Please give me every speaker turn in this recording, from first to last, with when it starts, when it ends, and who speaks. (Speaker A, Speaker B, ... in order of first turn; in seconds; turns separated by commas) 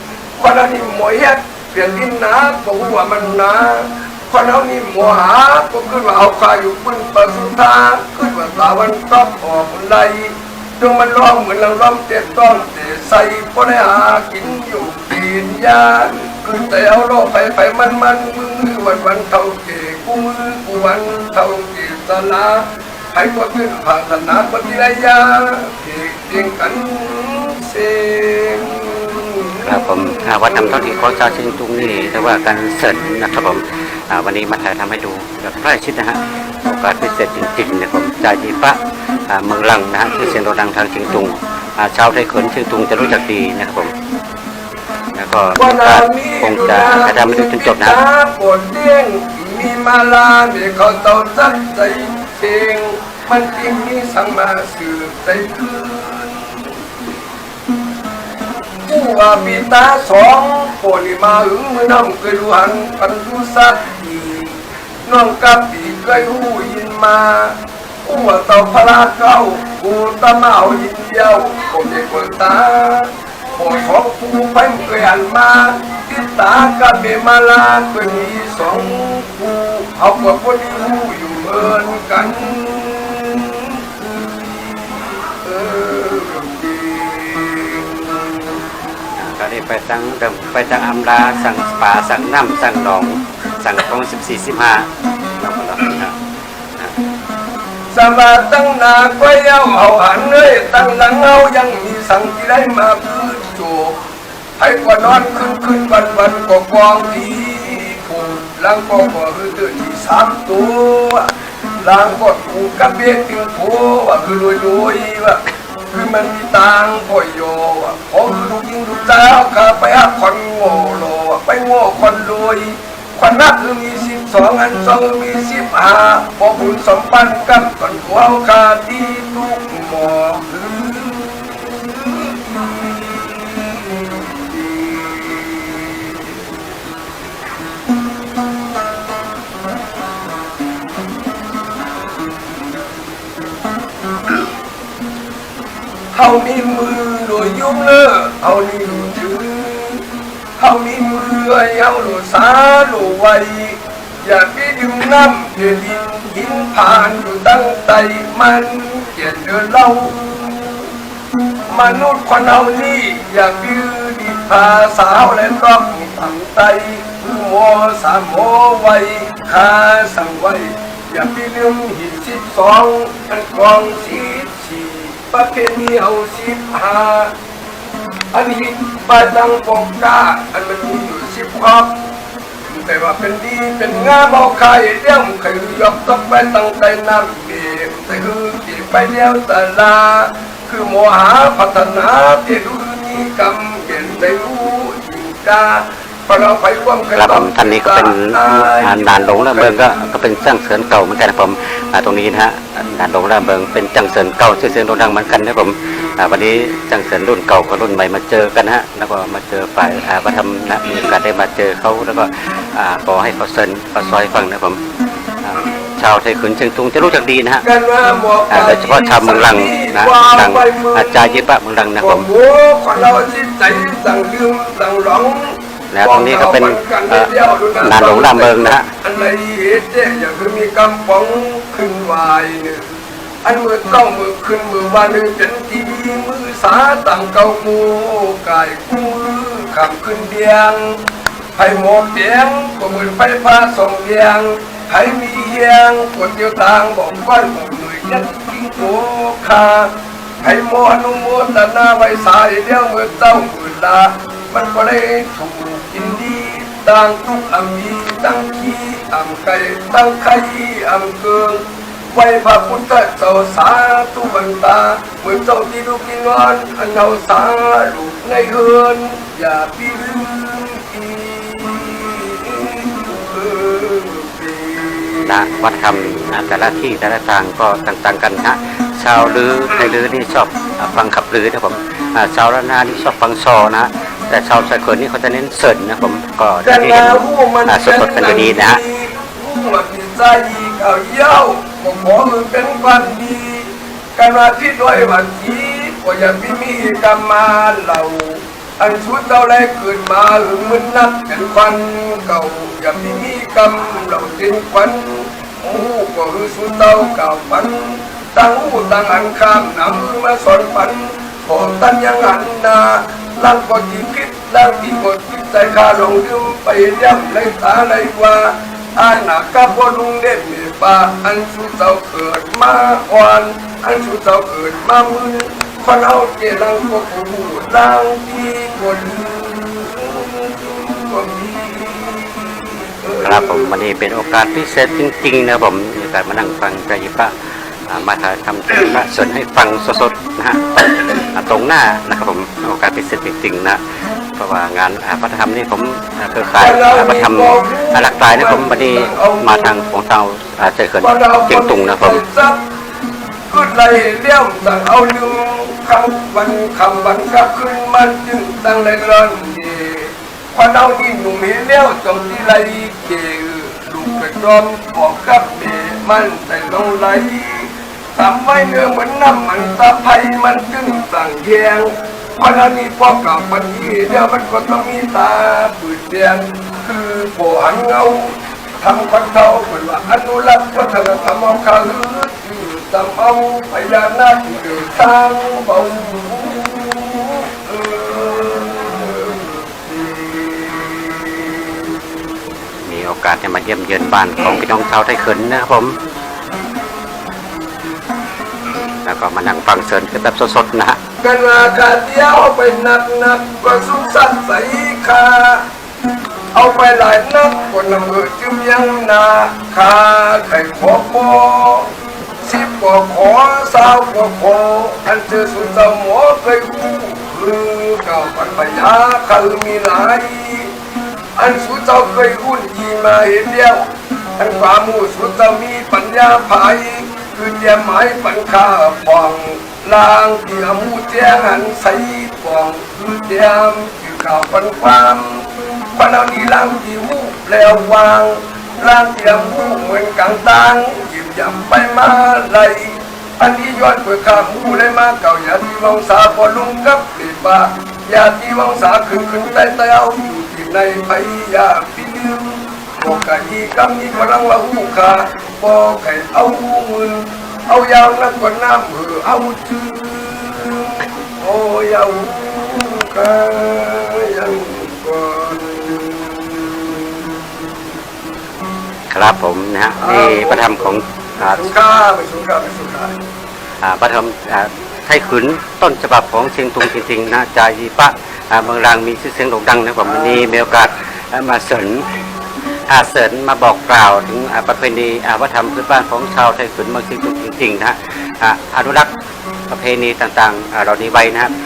Speaker A: 0.4-31.3, Speaker B: 29.6-43.9, Speaker B: 45.1-48.0, Speaker A: 45.6-56.8, Speaker A: 58.9-88.6, Speaker B: 89.2-96.2, Speaker A: 97.9-104.0, Speaker A: 104.6-136.4, Speaker A: 146.1-150.1, Speaker A: 150.6-160.9, Speaker A: 161.7-177.3, Speaker A: 178.3-181.9, Speaker A: 182.7-199.8, Speaker B: 197.1-214.8, Speaker B: 215.4-217.7, Speaker A: 217.6-232.8, Speaker B: 218.5-222.2, Speaker B: 225.9-228.9, Speaker A: 233.4-241.0, Speaker A: 241.6-275.5, Speaker B: 275.2-288.8, Speaker A: 286.6-333.8, Speaker B: 333.2-337.3, Speaker B: 337.8-343.8, Speaker B: 344.4-352.2, Speaker A: 346.6-349.7, Speaker A: 351.0-352.6, Speaker A: 353.5-392.0, Speaker B: 392.8-396.0, Speaker B: 399.0-401.0, Speaker A: 401.2-405.6, Speaker A: 406.5-420.7, Speaker A: 421.4-467.5, Speaker B: 469.1-471.7, Speaker A: 470.0-473.1, Speaker B: 473.8-482.1, Speaker A: 480.1-480.6, Speaker B: 482.9-489.1, Speaker B: 489.7-491.5